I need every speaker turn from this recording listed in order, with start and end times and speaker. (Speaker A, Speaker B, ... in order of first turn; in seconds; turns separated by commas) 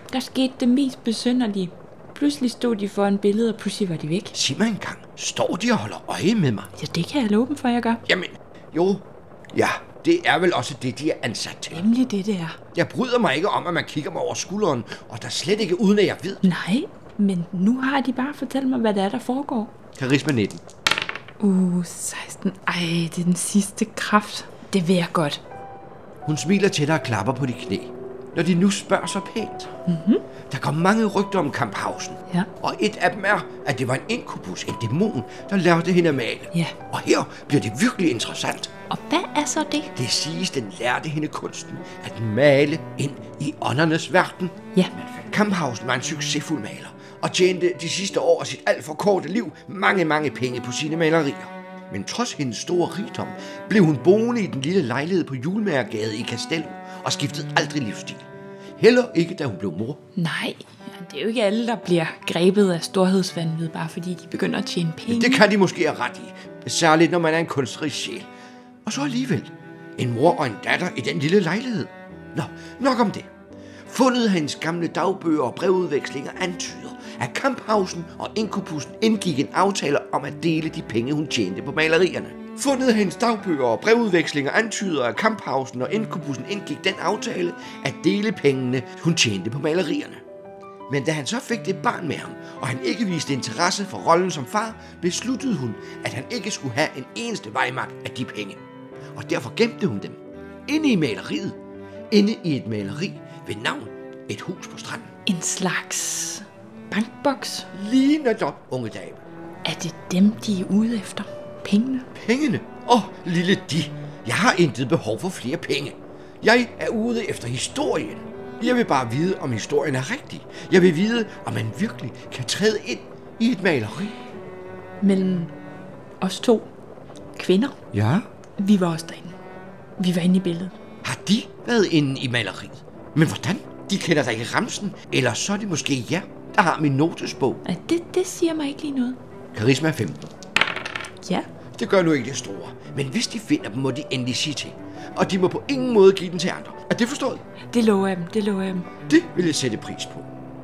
Speaker A: 0.1-4.3, Speaker B: 4.3-6.7, Speaker A: 6.8-8.0, Speaker B: 8.1-11.8, Speaker A: 11.7-12.6, Speaker B: 12.7-16.5, Speaker A: 16.4-19.7, Speaker B: 20.0-20.6, Speaker A: 21.4-25.4, Speaker B: 26.3-29.7, Speaker A: 29.9-30.2, Speaker B: 30.5-38.7, Speaker A: 38.9-39.9, Speaker B: 40.0-44.6, Speaker B: 45.2-58.3, Speaker B: 58.8-60.0, Speaker A: 60.2-65.5, Speaker B: 65.1-68.3, Speaker B: 68.9-73.3, Speaker B: 73.9-90.2, Speaker B: 90.9-98.6, Speaker B: 99.2-101.6, Speaker B: 102.1-105.1, Speaker A: 105.3-107.7, Speaker B: 107.7-109.2, Speaker A: 109.6-112.1, Speaker B: 112.1-124.2, Speaker A: 125.0-125.5, Speaker A: 126.2-126.7, Speaker A: 127.4-127.8, Speaker B: 127.9-128.3, Speaker A: 128.6-129.4, Speaker A: 130.0-130.7, Speaker B: 131.0-137.6, Speaker A: 137.7-139.2, Speaker B: 139.5-140.3, Speaker B: 141.8-147.4, Speaker A: 147.7-148.9, Speaker B: 149.1-150.3